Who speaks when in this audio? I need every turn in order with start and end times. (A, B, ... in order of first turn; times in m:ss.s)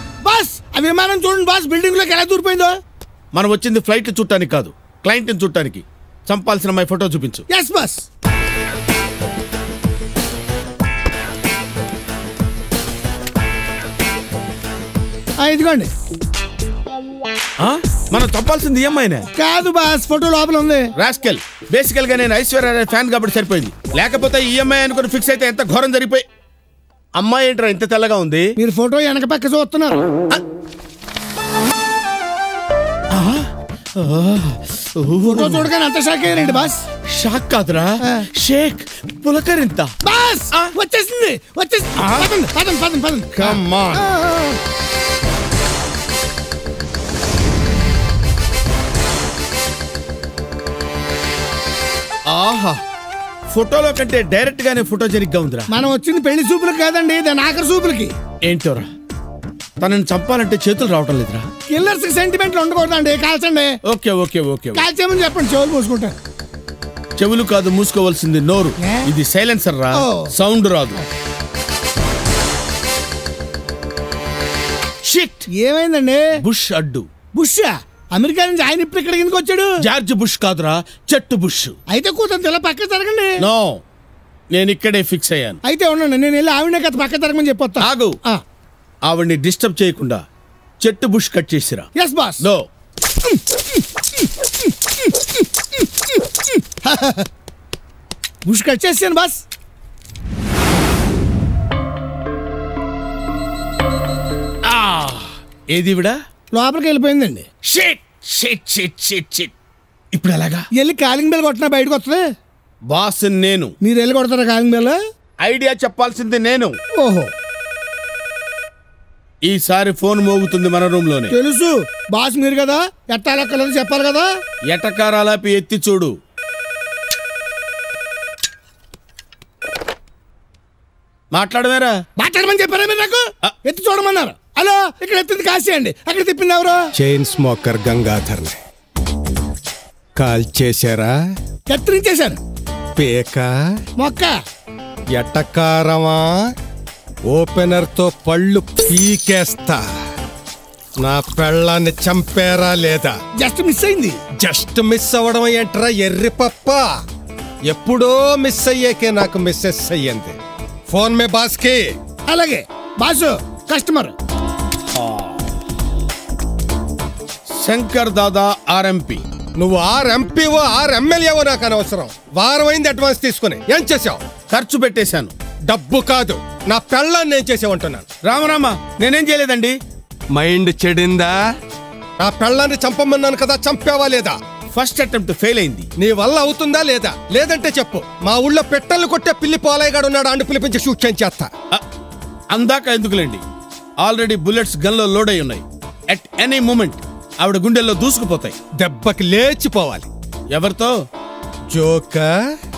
0:00.2-0:02.7 A
0:03.3-0:07.4 B
0:07.5-0:08.0 A
0:15.4-0:15.9 A
0:17.6-0:19.2 B
0:19.4-0:20.9 A
0:21.0-0:26.2 B
0:27.2-0:28.5 B
0:28.6-0:30.0 A
0:33.1-0:35.7 B
0:35.3-0:36.8 A
0:36.3-0:39.9 B
0:40.0-0:44.6 A
0:42.0-0:42.3 B
0:43.3-0:44.0 B
0:52.3-0:52.8 B
0:53.5-0:55.7 B
0:55.7-0:58.1 A
0:58.4-0:58.9 B
0:59.8-1:01.5 B
1:01.7-1:03.7 A
1:03.9-1:04.8 B
1:04.7-1:06.2 A
1:07.2-1:11.0 B
1:08.8-1:09.1 A
1:09.9-1:10.3 A
1:15.0-1:15.5 B
1:15.5-1:16.2 A
1:16.4-1:17.1 B
1:17.3-1:19.7 A
1:19.8-1:21.8 B
1:21.9-1:23.4 A
1:23.4-1:23.8 B
1:24.5-1:25.6 B
1:25.6-1:28.4 A
1:27.8-1:28.1 B
1:29.1-1:30.2 B
1:30.8-1:31.9 B
1:32.0-1:32.4 A
1:33.2-1:37.3 A
1:38.4-1:39.4 A
1:44.6-1:46.2 B
1:46.5-1:47.4 A
1:47.7-1:49.5 B
1:50.1-1:50.7 B
1:50.8-1:52.2 A
1:52.9-1:53.7 B
1:53.8-1:55.0 A
1:55.4-1:56.8 B
1:57.0-1:57.3 A
1:59.4-2:01.3 B
2:01.3-2:04.3 A
2:04.7-2:06.1 B
2:11.3-2:12.0 B
2:12.2-2:16.8 A
2:17.0-2:18.6 C
2:20.2-2:21.2 C
2:21.7-2:22.4 A
2:23.0-2:23.5 C
2:24.0-2:24.4 A
2:25.1-2:26.4 C
2:27.3-2:29.8 C
2:31.0-2:33.1 C
2:33.4-2:34.2 A
2:34.4-2:36.8 C
2:37.7-2:40.4 C
2:40.9-2:41.9 C
2:42.3-2:44.2 A
2:44.9-2:45.4 B
2:47.6-2:49.2 B
2:49.6-2:54.2 C
2:54.5-2:55.3 B
2:55.7-2:58.1 C
2:58.3-2:59.8 B
3:00.3-3:01.4 C
3:02.2-3:04.3 C
3:04.7-3:05.9 B
3:06.0-3:11.5 C
3:12.5-3:13.4 B
3:14.0-3:18.6 B
3:18.8-3:20.1 C
3:20.5-3:20.9 B
3:21.7-3:22.3 C